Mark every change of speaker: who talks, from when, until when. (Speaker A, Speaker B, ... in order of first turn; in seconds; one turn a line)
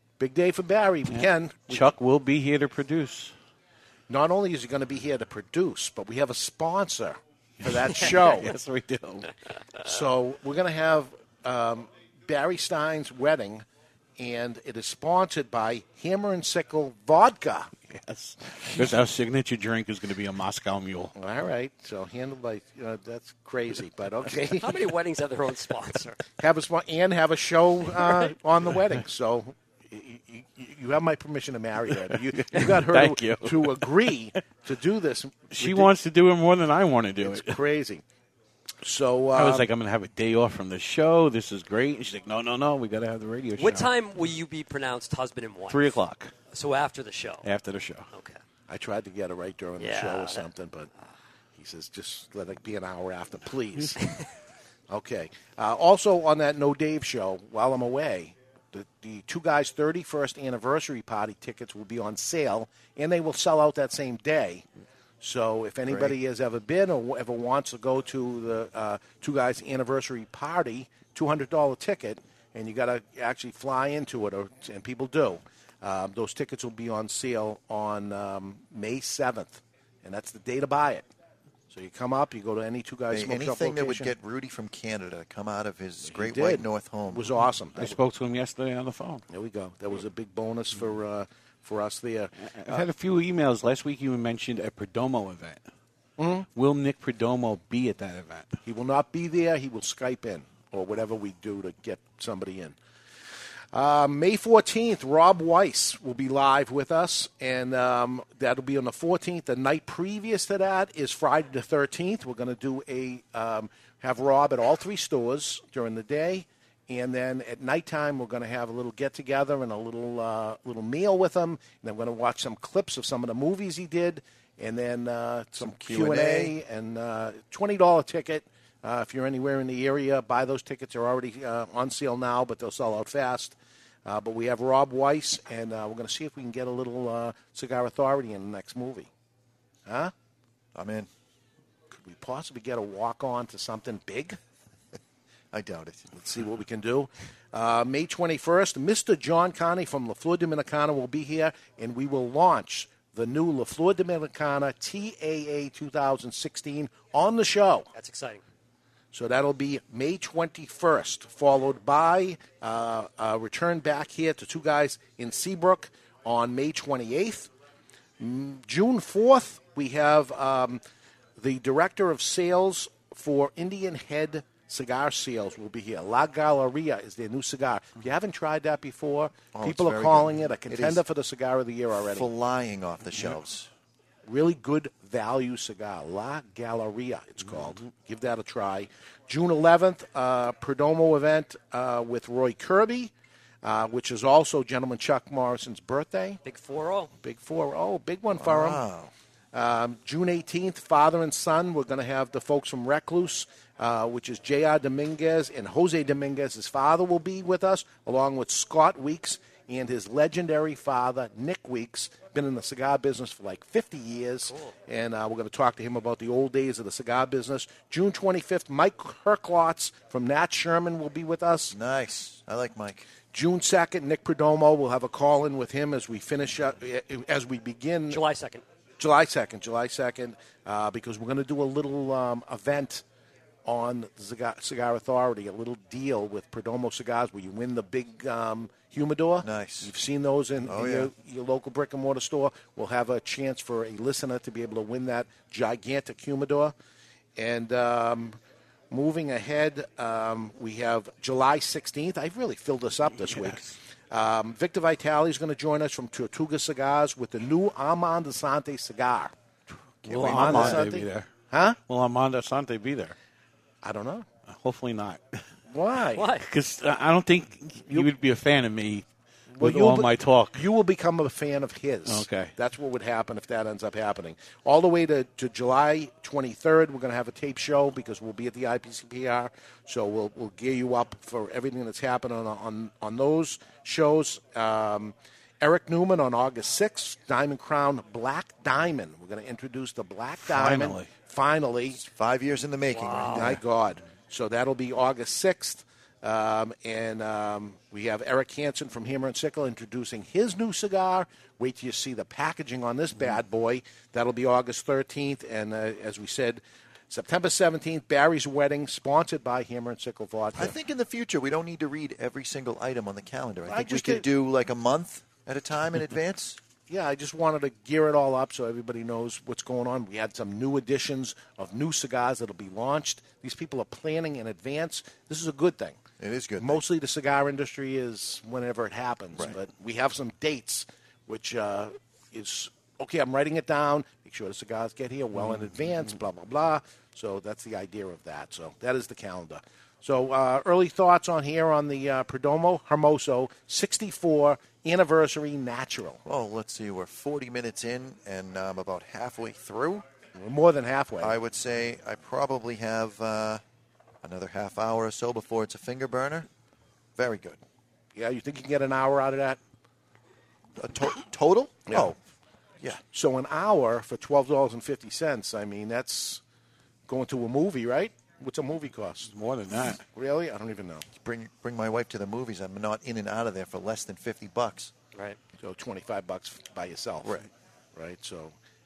Speaker A: 0.2-1.9
Speaker B: 1.1-3.3
Speaker A: 4.1-8.5
Speaker B: 7.6-9.3
Speaker A: 9.8-13.7
Speaker A: 14.2-17.7
Speaker B: 17.9-21.1
Speaker A: 21.1-24.9
Speaker C: 24.6-26.2
Speaker A: 26.4-35.9
Speaker B: 32.3-33.9
Speaker B: 35.5-37.6
Speaker A: 37.2-38.0
Speaker A: 38.8-39.7
Speaker B: 39.4-44.2
Speaker C: 43.6-45.9
Speaker B: 45.7-46.3
Speaker C: 46.5-47.5
Speaker B: 47.4-48.1
Speaker C: 48.1-48.4
Speaker A: 48.7-50.9
Speaker C: 49.8-50.5
Speaker A: 51.6-54.0
Speaker A: 54.9-64.6
Speaker A: 65.2-81.1
Speaker D: 65.9-66.2
Speaker A: 81.7-84.1
Speaker D: 83.1-87.3
Speaker A: 86.1-88.0
Speaker B: 87.8-89.2
Speaker A: 89.3-92.9
Speaker B: 92.5-95.6
Speaker A: 96.2-96.5
Speaker B: 96.6-98.6
Speaker A: 98.7-102.8
Speaker A: 103.7-139.1
Speaker D: 125.8-126.5
Speaker A: 139.9-140.1
Speaker D: 140.8-141.1
Speaker A: 141.9-144.4
Speaker D: 145.5-146.1
Speaker A: 146.1-157.9
Speaker C: 157.9-158.4
Speaker A: 159.1-167.5
Speaker A: 168.2-170.8
Speaker A: 171.4-182.3
Speaker D: 179.5-181.0
Speaker D: 182.1-183.7
Speaker A: 184.3-193.1
Speaker A: 193.6-196.4
Speaker C: 196.4-197.1
Speaker A: 197.2-198.8
Speaker D: 198.4-199.1
Speaker A: 199.5-221.8
Speaker D: 221.7-223.1
Speaker A: 223.3-228.2
Speaker C: 228.1-228.6
Speaker A: 229.0-233.0
Speaker A: 233.7-246.7
Speaker D: 239.4-239.9
Speaker D: 240.7-241.1
Speaker A: 247.4-248.4
Speaker A: 248.9-259.3
Speaker B: 253.2-253.7
Speaker D: 260.1-260.9
Speaker B: 260.1-261.3
Speaker A: 260.1-261.8
Speaker B: 261.9-263.2
Speaker A: 263.8-264.3
Speaker B: 264.5-265.4
Speaker A: 265.7-266.3
Speaker C: 266.1-266.5
Speaker B: 266.4-269.1
Speaker A: 269.6-292.0
Speaker B: 269.6-270.6
Speaker B: 272.1-272.5
Speaker B: 290.4-291.1
Speaker D: 291.9-293.6
Speaker C: 292.9-293.5
Speaker A: 293.3-310.8
Speaker D: 310.6-316.6
Speaker A: 313.7-314.3
Speaker A: 316.9-326.0
Speaker D: 326.2-326.8
Speaker A: 326.6-346.2
Speaker D: 346.2-350.1
Speaker A: 350.4-351.4
Speaker D: 351.2-353.6
Speaker D: 354.2-356.5
Speaker D: 357.1-357.6
Speaker A: 358.1-359.6
Speaker D: 360.8-362.2
Speaker A: 361.9-362.2
Speaker A: 363.1-366.4
Speaker A: 367.1-369.3
Speaker B: 369.3-370.0
Speaker A: 370.1-371.1
Speaker D: 371.1-374.9
Speaker A: 375.6-378.5